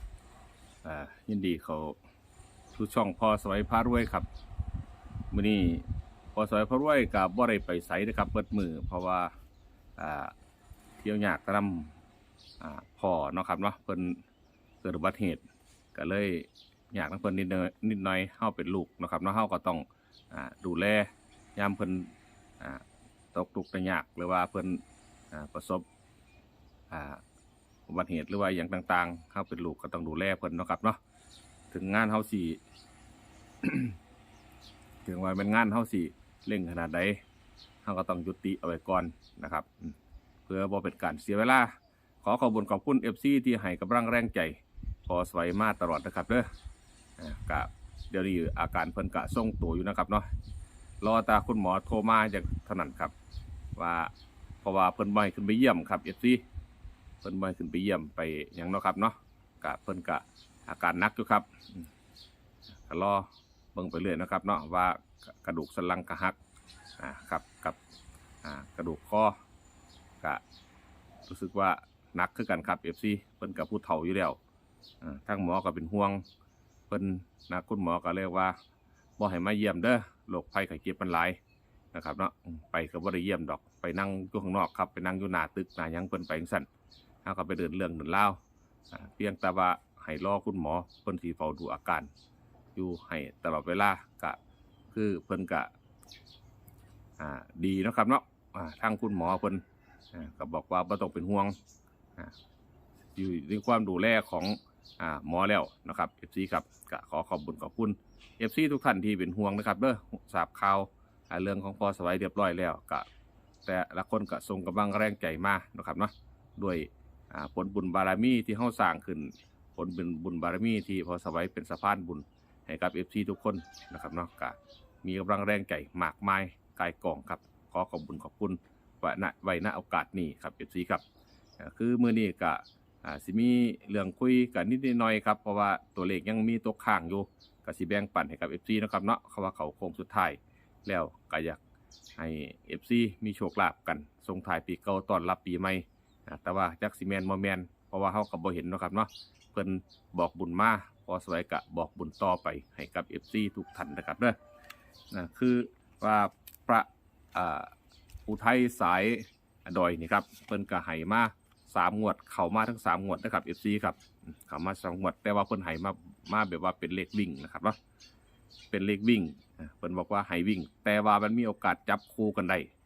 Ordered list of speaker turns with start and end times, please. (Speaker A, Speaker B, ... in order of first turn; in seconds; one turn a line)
Speaker A: 0.8-2.0
Speaker A: 2.7-4.3
Speaker A: 5.3-9.3
Speaker A: 10.0-10.3
Speaker A: 11.0-11.9
Speaker A: 12.6-14.2
Speaker A: 14.8-24.8
Speaker A: 25.3-25.8
Speaker A: 26.9-27.2
Speaker A: 27.9-31.0
Speaker A: 31.7-32.6
Speaker A: 33.6-34.0
Speaker A: 35.0-37.2
Speaker A: 37.8-39.9
Speaker A: 40.5-46.5
Speaker A: 47.2-50.3
Speaker A: 51.0-53.1
Speaker A: 53.8-54.1
Speaker A: 54.6-56.4
Speaker A: 57.2-61.8
Speaker A: 62.9-66.4
Speaker A: 67.0-67.8
Speaker A: 68.4-69.3
Speaker A: 71.3-74.4
Speaker A: 75.0-76.2
Speaker A: 76.9-78.5
Speaker A: 79.2-81.4
Speaker A: 81.9-86.7
Speaker A: 87.2-88.4
Speaker A: 88.9-92.1
Speaker A: 92.7-94.4
Speaker A: 94.9-95.7
Speaker A: 97.2-101.5
Speaker A: 103.1-113.0
Speaker A: 113.7-131.0
Speaker A: 131.6-141.6
Speaker A: 142.2-154.4
Speaker A: 155.1-157.7
Speaker A: 158.3-167.8
Speaker A: 168.7-172.7